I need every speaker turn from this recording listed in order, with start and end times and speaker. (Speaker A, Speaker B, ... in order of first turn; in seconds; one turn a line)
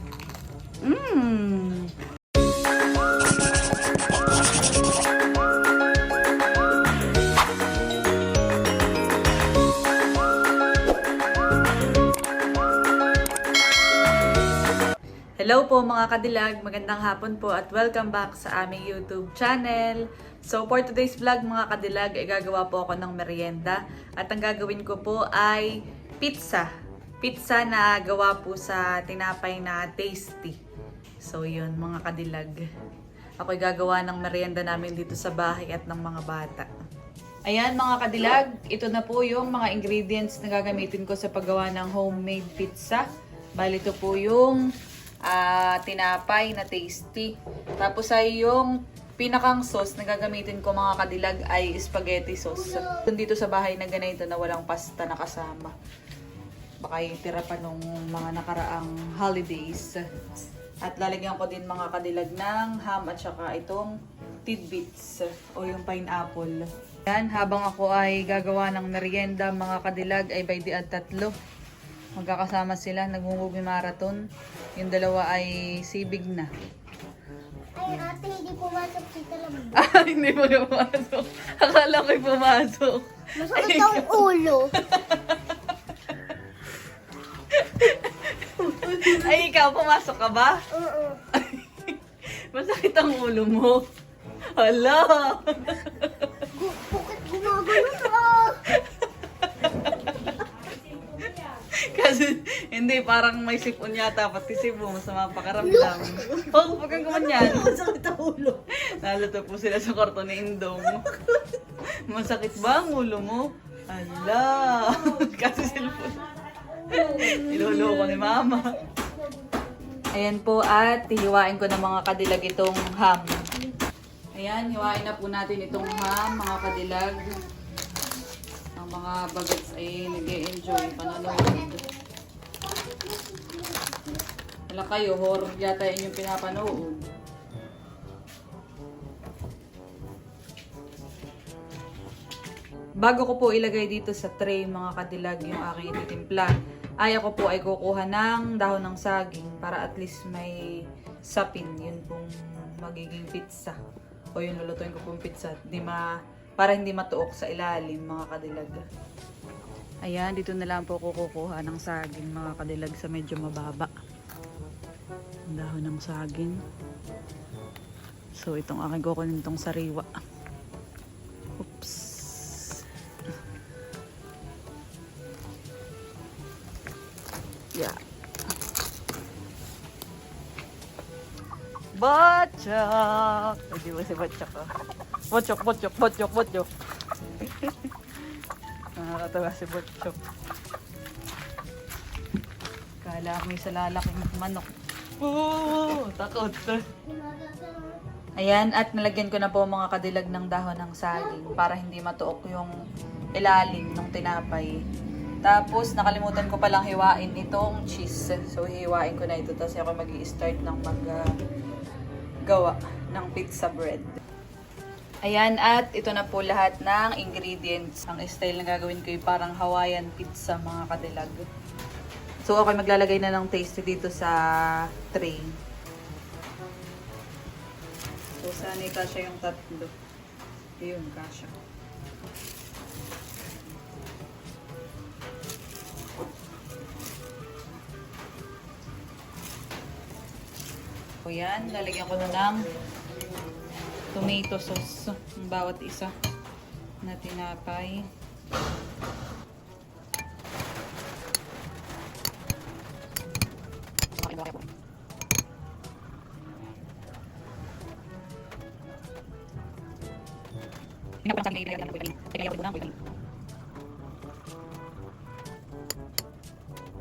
Speaker A: 0.8-1.9
Speaker A: 15.4-25.7
Speaker A: 26.2-26.7
Speaker A: 27.2-30.6
Speaker A: 31.2-32.6
Speaker A: 33.4-36.7
Speaker A: 37.5-43.0
Speaker A: 43.6-44.6
Speaker A: 45.3-55.7
Speaker A: 56.8-60.0
Speaker A: 60.8-63.9
Speaker A: 64.5-71.3
Speaker A: 72.2-74.2
Speaker A: 74.8-76.5
Speaker B: 77.8-79.9
Speaker A: 79.8-85.5
Speaker B: 83.4-84.7
Speaker A: 87.5-90.6
Speaker B: 90.7-91.2
Speaker A: 91.3-92.0
Speaker A: 92.5-93.8
Speaker A: 94.5-96.3
Speaker B: 96.5-98.7
Speaker A: 97.7-98.0
Speaker A: 98.7-100.4
Speaker A: 101.8-107.8
Speaker B: 105.6-106.4
Speaker C: 107.1-108.6
Speaker A: 108.8-111.4
Speaker A: 112.1-116.2
Speaker A: 116.9-118.7
Speaker B: 116.9-120.1
Speaker C: 116.9-117.4
Speaker A: 120.1-123.3
Speaker A: 124.4-127.3
Speaker B: 125.9-126.2
Speaker A: 128.8-131.8
Speaker B: 130.3-132.0
Speaker B: 132.6-134.2
Speaker A: 134.7-137.0
Speaker A: 143.0-150.6
Speaker A: 151.3-153.8
Speaker A: 154.3-156.0
Speaker A: 156.6-158.8
Speaker A: 160.1-163.9
Speaker A: 165.5-166.6
Speaker A: 168.4-170.1
Speaker A: 171.6-172.8
Speaker A: 182.0-184.7
Speaker A: 185.3-186.7
Speaker A: 187.4-187.9
Speaker A: 189.0-190.2
Speaker A: 193.0-196.8
Speaker B: 197.0-198.0
Speaker A: 198.4-202.7
Speaker B: 201.1-201.6
Speaker A: 203.4-204.7
Speaker A: 205.4-211.2
Speaker A: 212.5-214.2
Speaker A: 215.2-221.4
Speaker A: 222.4-224.4
Speaker A: 225.0-225.6
Speaker A: 228.4-229.9
Speaker A: 230.8-231.5
Speaker A: 241.2-242.6
Speaker A: 244.1-246.1
Speaker A: 247.0-248.0
Speaker A: 254.2-254.6
Speaker A: 261.2-262.9